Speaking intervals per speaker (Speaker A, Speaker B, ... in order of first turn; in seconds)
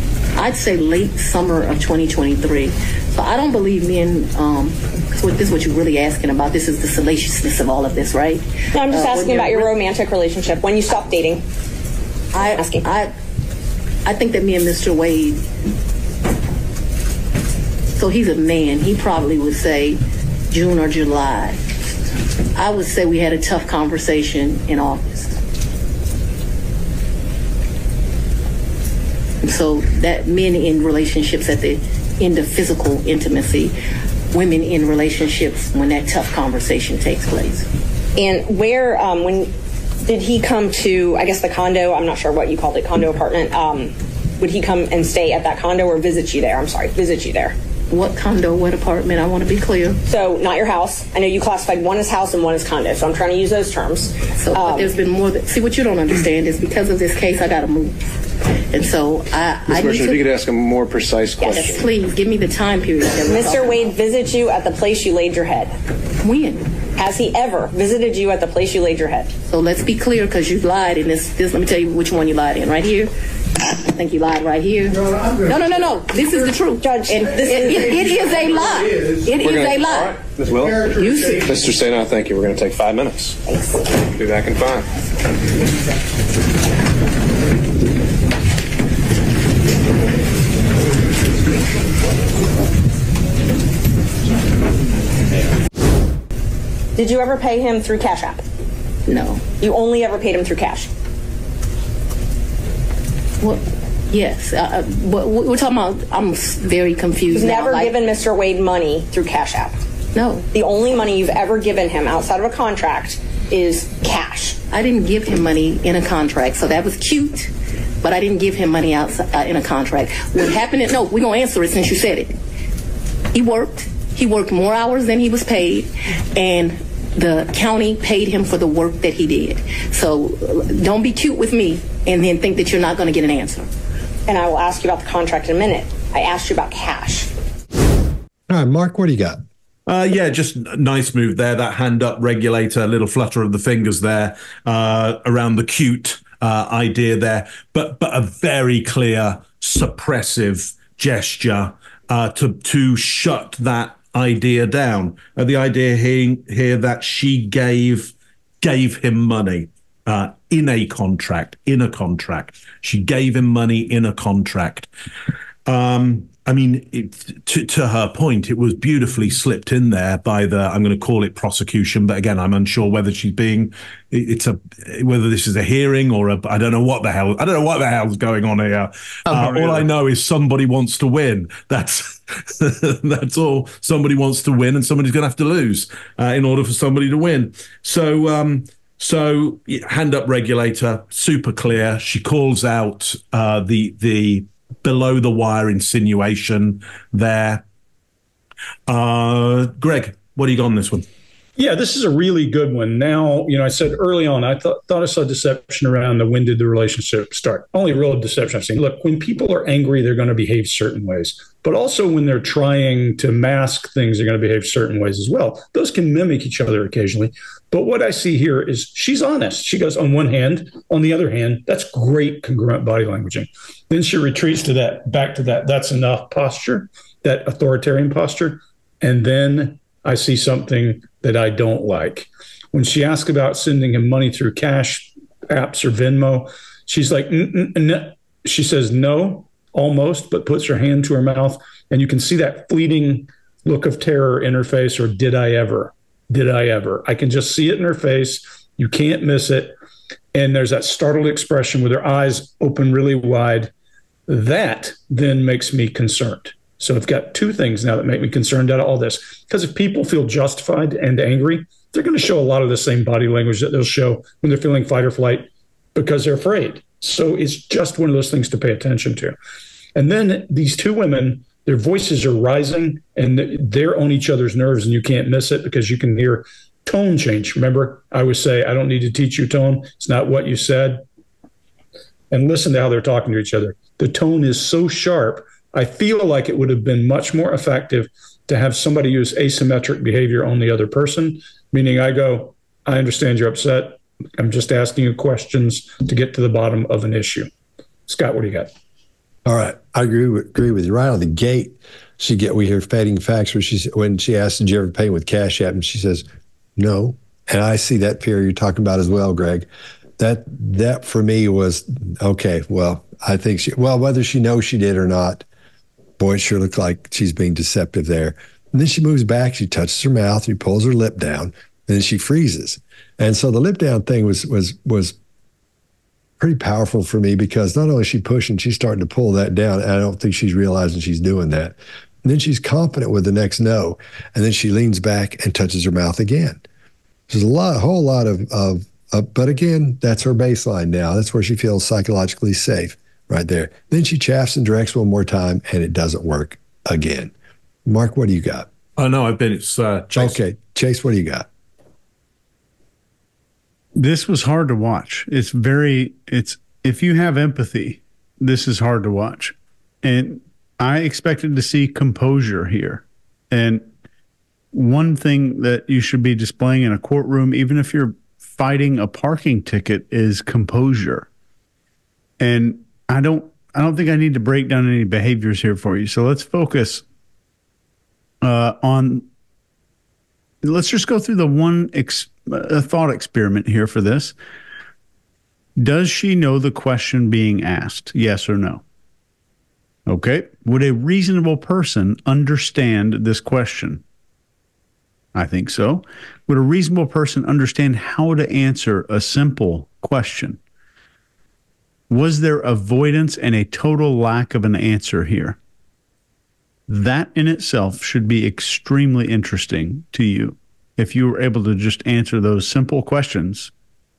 Speaker A: 0.4-9.7, 12.3-13.1, 14.1-15.4, 18.0-20.0, 20.5-21.6, 22.6-25.4, 29.4-33.7, 34.3-37.7, 47.9-50.0, 54.4-58.0, 58.7-60.3, 61.4-64.0, 66.2-66.7, 69.5-81.6, 99.1-99.5, 103.4-107.9, 110.1-110.5, 114.7-117.5, 118.0-122.4, 123.3-133.7
Speaker B: 8.7-11.4, 12.5-12.8, 38.2-39.5, 40.0-47.5, 50.1-54.9, 61.4-61.7, 63.2-65.8, 67.0-69.3, 76.8-78.0, 97.0-98.4, 99.6-100.9, 107.3-109.8, 110.5-114.6, 134.3-137.3
Speaker C: 59.7-61.9, 79.3-83.4, 84.1-84.9
Speaker D: 138.5-139.4, 299.5-306.2, 306.8-309.7, 310.2-315.4, 316.2-325.1, 326.4-336.6, 337.3-347.3, 347.9-348.7, 350.1-351.5
Speaker E: 139.9-164.9, 165.7-197.6, 198.9-201.1, 349.0-350.4
Speaker F: 201.6-249.8, 250.3-253.7, 254.3-269.4, 269.9-281.0, 282.3-297.5, 298.1-298.7
Speaker G: 353.9-363.9, 364.7-371.3, 372.4-377.0, 378.4-379.3, 380.6-384.3, 385.8-388.8, 390.1-394.0, 395.4-400.6, 402.1-405.6, 406.9-413.7